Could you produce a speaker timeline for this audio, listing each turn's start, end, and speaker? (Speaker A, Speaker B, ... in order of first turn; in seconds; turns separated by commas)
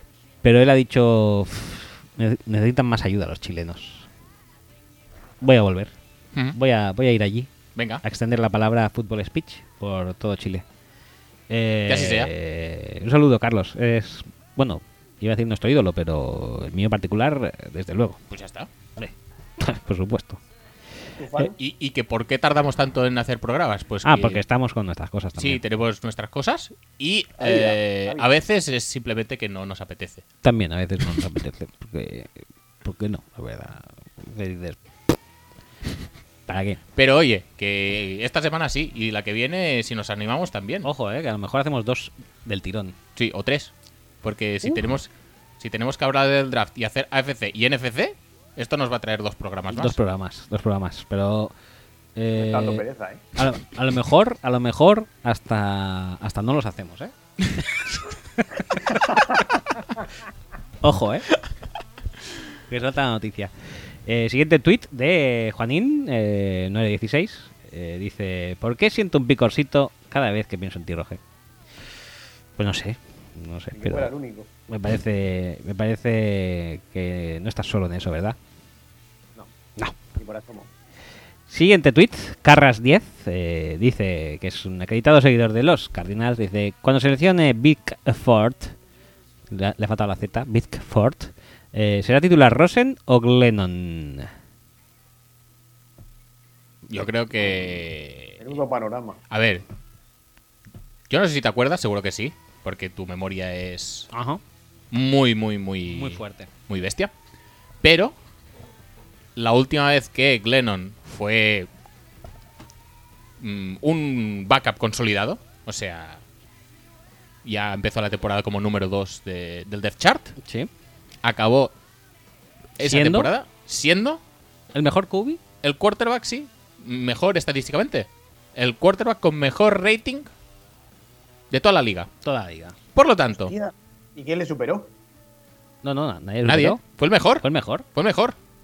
Speaker A: 0.4-4.1, Speaker A: 5.4-5.9, Speaker A: 6.5-7.5, Speaker B: 7.8-8.0, Speaker A: 8.0-10.6, Speaker A: 11.5-18.2, Speaker B: 11.9-12.3, Speaker B: 18.3-18.7, Speaker A: 19.0-20.4, Speaker C: 21.2-21.5, Speaker B: 21.6-24.4, Speaker A: 24.0-25.6, Speaker B: 25.4-30.2, Speaker C: 27.4-28.2, Speaker A: 30.4-32.3, Speaker A: 32.8-34.8, Speaker A: 36.5-36.8, Speaker B: 37.0-40.9, Speaker A: 40.8-43.0, Speaker B: 43.1-43.7, Speaker B: 44.2-50.0, Speaker A: 49.7-51.5, Speaker A: 52.1-52.8, Speaker C: 52.3-53.2, Speaker A: 53.4-57.1, Speaker A: 58.4-59.0, Speaker A: 60.8-61.3, Speaker A: 62.7-63.5, Speaker A: 64.0-71.2, Speaker A: 72.6-74.1, Speaker C: 73.7-74.5, Speaker A: 74.7-78.3, Speaker C: 80.1-80.7, Speaker A: 81.5-88.7, Speaker A: 89.5-94.3, Speaker B: 96.9-98.6, Speaker C: 98.4-99.2, Speaker B: 99.3-99.6, Speaker B: 101.1-104.1, Speaker A: 104.1-104.4, Speaker B: 104.9-107.1, Speaker A: 105.8-106.5, Speaker B: 107.8-108.1, Speaker B: 109.3-111.7, Speaker B: 113.4-116.2, Speaker B: 117.4-120.3, Speaker A: 120.4-120.7, Speaker B: 121.2-121.7, Speaker B: 122.8-124.2, Speaker A: 122.8-123.3, Speaker A: 124.7-125.4, Speaker B: 125.6-130.3, Speaker B: 131.5-132.1, Speaker A: 132.2-132.8, Speaker B: 132.9-133.5, Speaker C: 133.4-134.9, Speaker A: 135.8-136.8, Speaker B: 136.4-138.3, Speaker A: 137.4-137.8